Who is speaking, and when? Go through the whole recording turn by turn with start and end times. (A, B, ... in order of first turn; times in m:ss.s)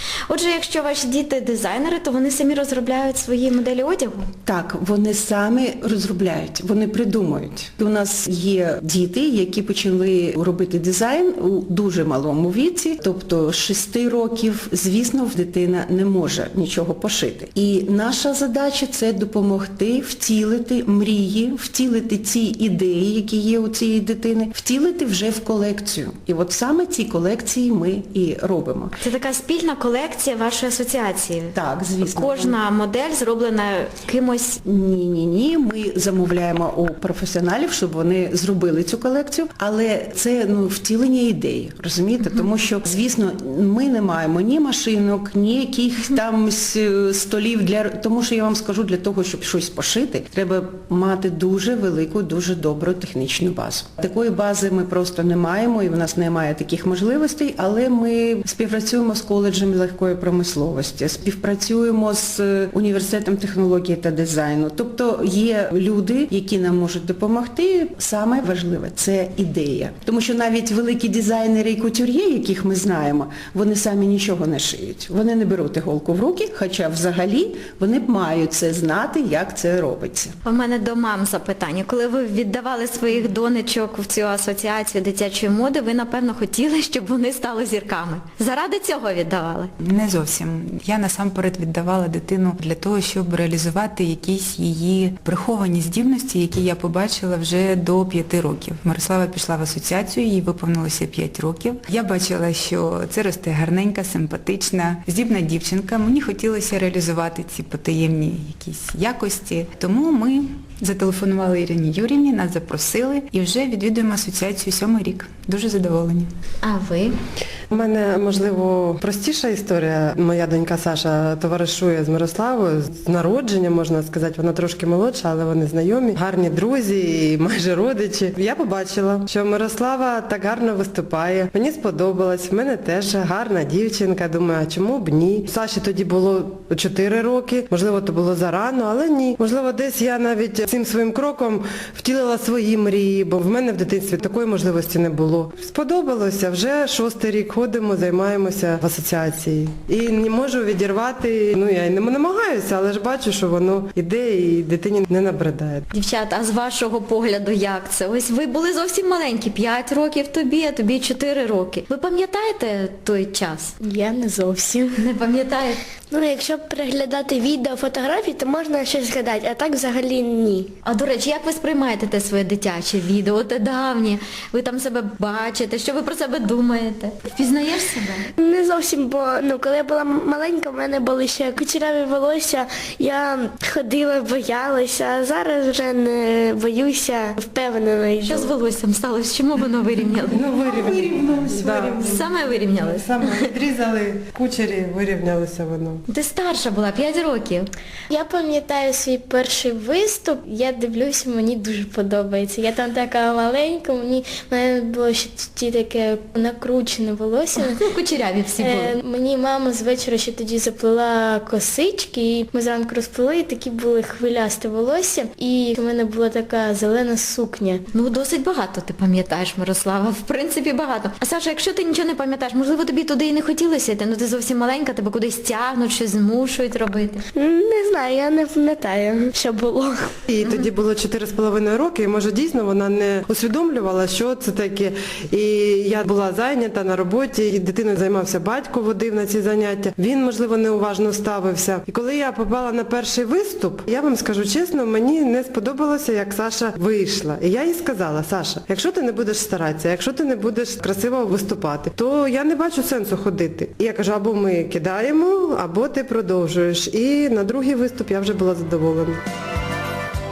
0:00.3-0:04.3 A
0:04.4-0:28.9 B
0:29.0-0:34.6 A
0:31.5-0:32.6 B
0:34.6-1:20.3 B
1:20.4-1:29.7 A
1:29.8-1:56.3 C
1:56.6-1:57.1 A
1:57.7-2:35.8 D
2:35.9-2:43.7 A
2:43.8-2:45.0 E
2:45.0-2:45.8 A
2:46.1-2:50.7 F
2:50.8-2:58.3 A
2:58.4-3:08.5 F
3:08.2-3:10.4 A
3:10.3-3:16.0 D
3:10.8-3:12.0 C
3:11.9-3:13.5 A
3:16.1-3:17.7 A
3:18.1-3:27.8 E
3:27.6-3:29.0 A
3:28.6-3:37.8 E
3:37.9-3:47.2 A
3:47.4-3:50.1 F
3:50.3-4:19.2 D
3:50.4-3:50.7 A